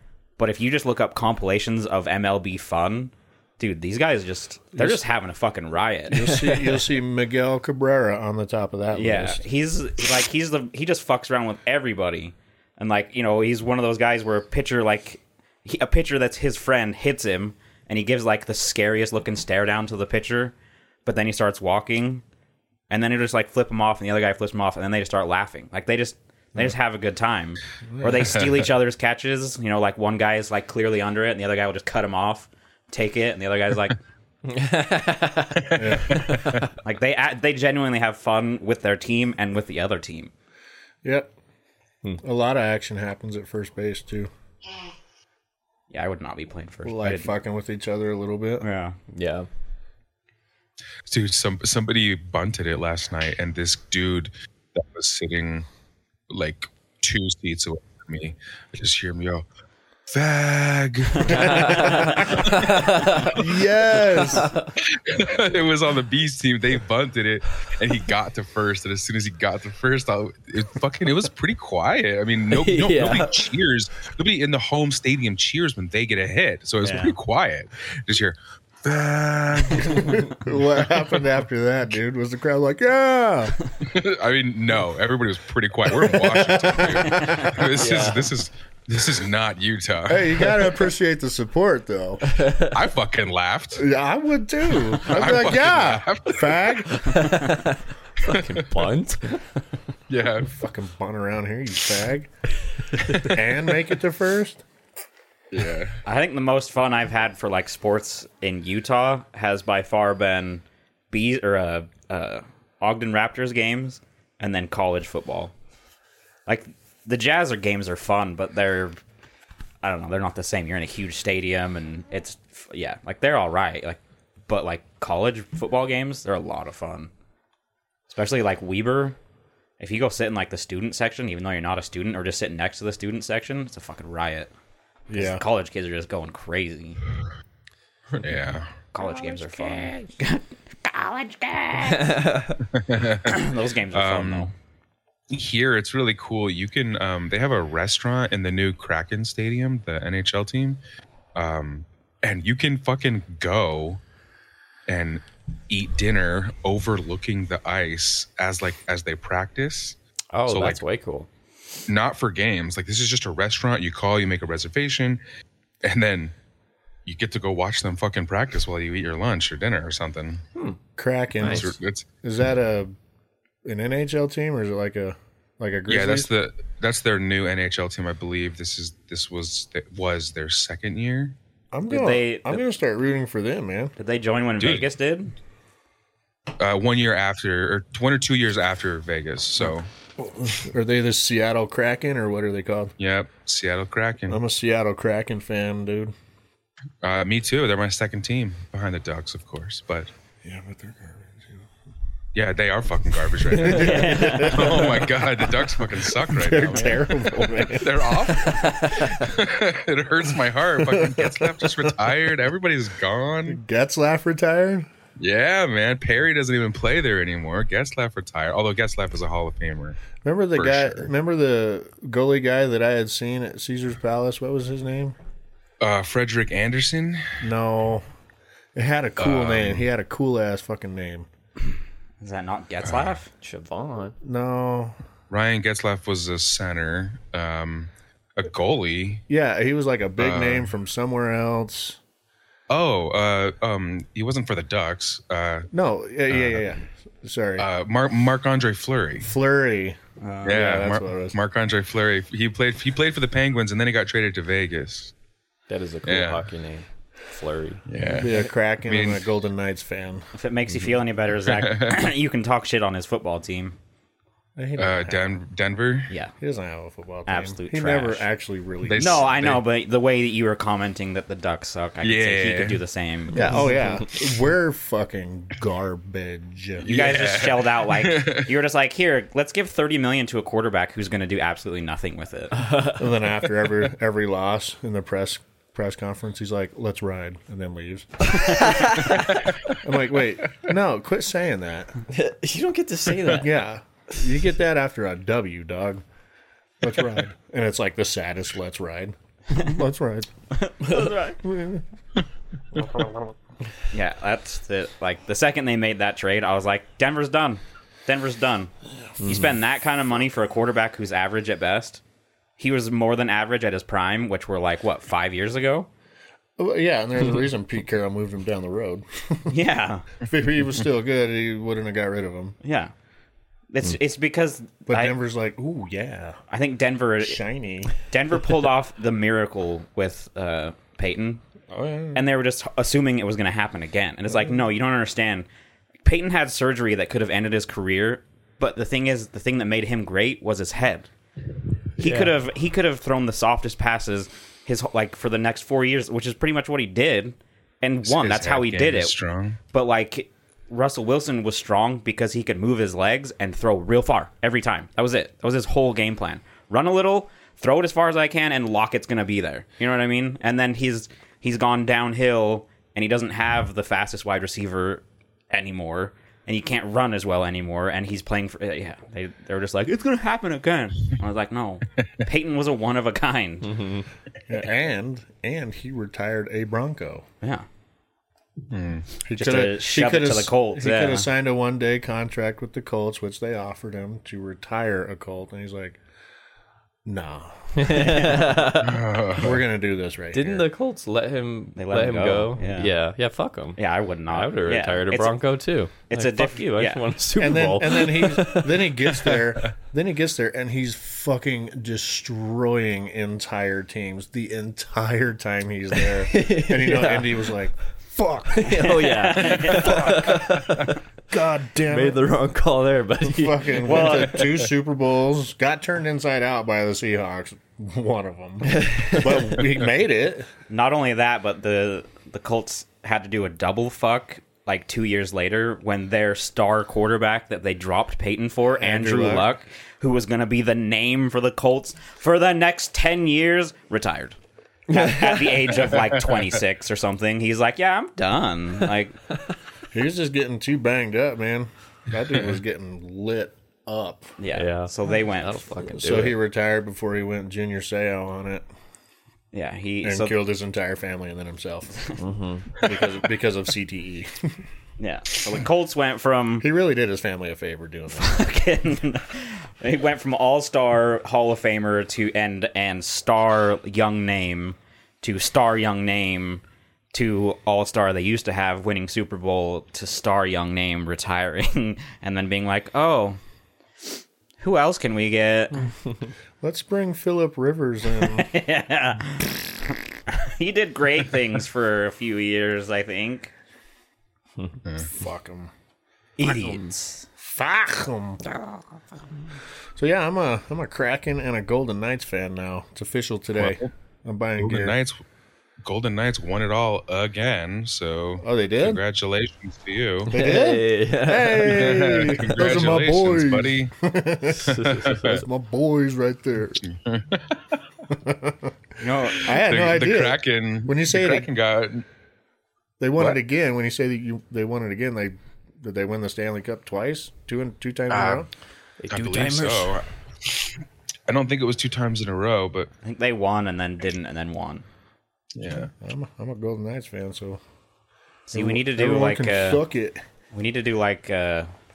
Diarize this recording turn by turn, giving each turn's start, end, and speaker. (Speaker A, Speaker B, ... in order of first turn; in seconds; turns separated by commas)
Speaker A: 0.4-6.3, Speaker B: 4.8-5.0, Speaker B: 6.1-9.4, Speaker C: 6.2-6.8, Speaker A: 8.9-20.5, Speaker A: 21.0-22.2, Speaker A: 22.9-34.0, Speaker B: 27.9-28.3, Speaker C: 34.4-36.7, Speaker B: 35.7-36.2, Speaker D: 36.1-36.6, Speaker A: 36.8-40.3, Speaker B: 41.0-41.3, Speaker B: 42.2-44.3, Speaker A: 45.9-47.3, Speaker B: 46.8-48.6, Speaker A: 48.6-49.0, Speaker C: 49.1-49.5, Speaker D: 51.0-55.6, Speaker D: 56.3-59.4, Speaker D: 60.1-62.7, Speaker B: 61.3-62.2, Speaker C: 61.5-64.7, Speaker B: 63.3-64.5, Speaker D: 64.8-81.2, Speaker C: 72.5-73.4, Speaker A: 76.8-77.1, Speaker B: 79.7-83.5, Speaker D: 83.8-90.7, Speaker B: 85.9-87.5, Speaker C: 87.7-88.3, Speaker B: 90.1-92.4, Speaker C: 92.2-92.7, Speaker D: 92.6-93.8, Speaker B: 93.8-97.4, Speaker D: 94.9-97.0, Speaker C: 97.0-99.6, Speaker D: 98.2-98.7, Speaker D: 100.1-100.5, Speaker B: 100.4-102.3, Speaker B: 103.1-104.6, Speaker D: 105.5-106.0, Speaker A: 106.0-115.5, Speaker A: 116.5-119.0, Speaker A: 119.8-127.1, Speaker A: 128.1-129.2, Speaker A: 129.8-134.5, Speaker B: 135.1-135.4, Speaker A: 135.1-137.0, Speaker D: 138.1-138.7, Speaker A: 138.9-142.2, Speaker C: 141.8-142.6, Speaker D: 142.7-144.5, Speaker A: 143.2-144.5, Speaker D: 145.3-150.8, Speaker D: 151.3-154.0, Speaker D: 154.9-160.8, Speaker C: 160.3-161.3, Speaker D: 161.9-165.2, Speaker D: 165.8-166.3, Speaker D: 167.0-170.4, Speaker C: 170.5-170.8, Speaker B: 171.0-172.9, Speaker D: 171.4-172.1, Speaker B: 173.6-176.3, Speaker D: 175.9-181.3, Speaker B: 181.7-183.9, Speaker A: 181.9-182.6, Speaker A: 184.0-185.3, Speaker D: 184.6-184.9, Speaker D: 186.6-189.9, Speaker B: 190.2-192.9, Speaker D: 193.0-194.4, Speaker B: 194.3-196.1, Speaker D: 197.0-200.1, Speaker B: 200.4-201.7, Speaker D: 202.3-207.0, Speaker B: 203.4-205.6, Speaker A: 203.6-205.0, Speaker B: 206.2-208.5, Speaker A: 206.6-207.7, Speaker D: 207.7-213.6, Speaker A: 208.4-208.8, Speaker B: 210.8-211.9, Speaker B: 213.5-214.9, Speaker D: 215.2-220.0, Speaker B: 220.2-225.1, Speaker D: 220.6-221.1, Speaker D: 225.8-227.4, Speaker B: 227.4-228.0, Speaker B: 228.7-231.3, Speaker D: 229.2-229.9, Speaker A: 232.2-233.3, Speaker D: 232.8-233.2, Speaker C: 233.4-234.2, Speaker B: 234.2-235.0, Speaker D: 235.3-239.2, Speaker B: 239.3-242.0, Speaker D: 240.2-240.7, Speaker D: 242.7-245.7, Speaker B: 245.7-247.7, Speaker D: 246.3-246.6, Speaker D: 247.6-249.3, Speaker B: 249.2-251.3, Speaker A: 250.2-250.5, Speaker D: 250.4-255.1, Speaker C: 255.7-257.8, Speaker D: 256.0-256.4, Speaker D: 257.9-259.2, Speaker B: 258.2-260.3, Speaker A: 260.3-263.8, Speaker D: 261.5-261.9, Speaker B: 264.6-265.2, Speaker D: 264.8-266.1, Speaker B: 266.4-269.3, Speaker A: 267.3-268.2, Speaker D: 268.9-269.6, Speaker A: 269.0-273.7, Speaker D: 272.0-272.8, Speaker C: 273.3-273.8, Speaker B: 273.3-276.9, Speaker A: 276.8-282.6, Speaker D: 276.8-278.5, Speaker C: 282.5-283.1, Speaker B: 282.9-288.8, Speaker C: 288.6-289.1, Speaker B: 289.7-291.9, Speaker C: 292.1-293.5, Speaker B: 293.3-296.0, Speaker B: 296.8-300.3, Speaker A: 300.5-301.4, Speaker B: 300.9-301.8, Speaker A: 303.9-308.7, Speaker C: 309.2-309.5, Speaker A: 309.2-312.0, Speaker A: 312.6-315.9, Speaker B: 316.6-319.5, Speaker A: 319.5-320.1, Speaker B: 320.2-322.6, Speaker A: 322.6-322.9, Speaker A: 323.7-325.1, Speaker B: 324.9-326.4, Speaker A: 326.5-327.4, Speaker B: 327.2-327.9, Speaker A: 327.9-331.4, Speaker B: 331.7-332.2, Speaker A: 332.1-335.5, Speaker A: 336.0-341.1, Speaker A: 342.0-349.1, Speaker C: 342.0-342.3, Speaker D: 348.0-349.6, Speaker A: 349.7-373.9, Speaker C: 373.6-374.0, Speaker B: 374.5-377.2, Speaker D: 378.7-379.1, Speaker B: 379.2-386.0, Speaker A: 379.3-381.3, Speaker B: 387.0-388.2, Speaker C: 387.8-389.2, Speaker D: 388.8-389.6, Speaker B: 389.4-390.7, Speaker C: 390.3-399.5, Speaker A: 391.8-392.9, Speaker A: 393.8-395.4, Speaker A: 396.1-397.0, Speaker B: 397.4-410.8, Speaker C: 406.2-407.5, Speaker C: 408.5-411.0, Speaker A: 408.7-410.4, Speaker B: 411.3-412.3, Speaker C: 411.9-414.4, Speaker B: 413.2-420.5, Speaker A: 413.8-414.6, Speaker C: 418.7-419.6, Speaker A: 420.7-434.4, Speaker B: 428.8-429.5, Speaker C: 434.9-435.7, Speaker A: 434.9-439.1, Speaker B: 439.9-444.4, Speaker A: 444.4-445.9, Speaker C: 444.5-446.4, Speaker B: 445.9-448.6, Speaker A: 449.5-450.3, Speaker B: 450.0-452.1, Speaker C: 452.2-452.8, Speaker B: 452.8-454.6, Speaker A: 455.0-456.7, Speaker B: 456.6-458.5, Speaker A: 458.1-466.6, Speaker A: 467.1-473.4, Speaker A: 474.6-475.9, Speaker B: 476.6-478.5, Speaker A: 478.2-483.5, Speaker B: 485.0-485.7, Speaker A: 486.4-487.2, Speaker C: 486.4-486.8, Speaker B: 487.4-488.4, Speaker B: 489.9-494.9, Speaker D: 493.6-493.9, Speaker D: 494.6-495.2, Speaker D: 495.8-500.4, Speaker B: 498.4-499.0, Speaker B: 500.3-506.8, Speaker C: 500.3-502.1, Speaker D: 501.5-503.9, Speaker C: 504.6-505.3, Speaker D: 505.0-505.4, Speaker D: 506.8-507.6, Speaker B: 508.1-508.7, Speaker A: 509.0-509.6, Speaker B: 509.4-511.5, Speaker D: 509.6-512.0, Speaker B: 513.0-518.5, Speaker D: 518.1-518.4, Speaker C: 519.0-519.9, Speaker D: 519.1-522.9, Speaker A: 523.0-524.8, Speaker D: 525.5-525.9, Speaker B: 526.0-527.6, Speaker A: 528.5-529.8, Speaker B: 528.5-530.2, Speaker A: 530.5-531.7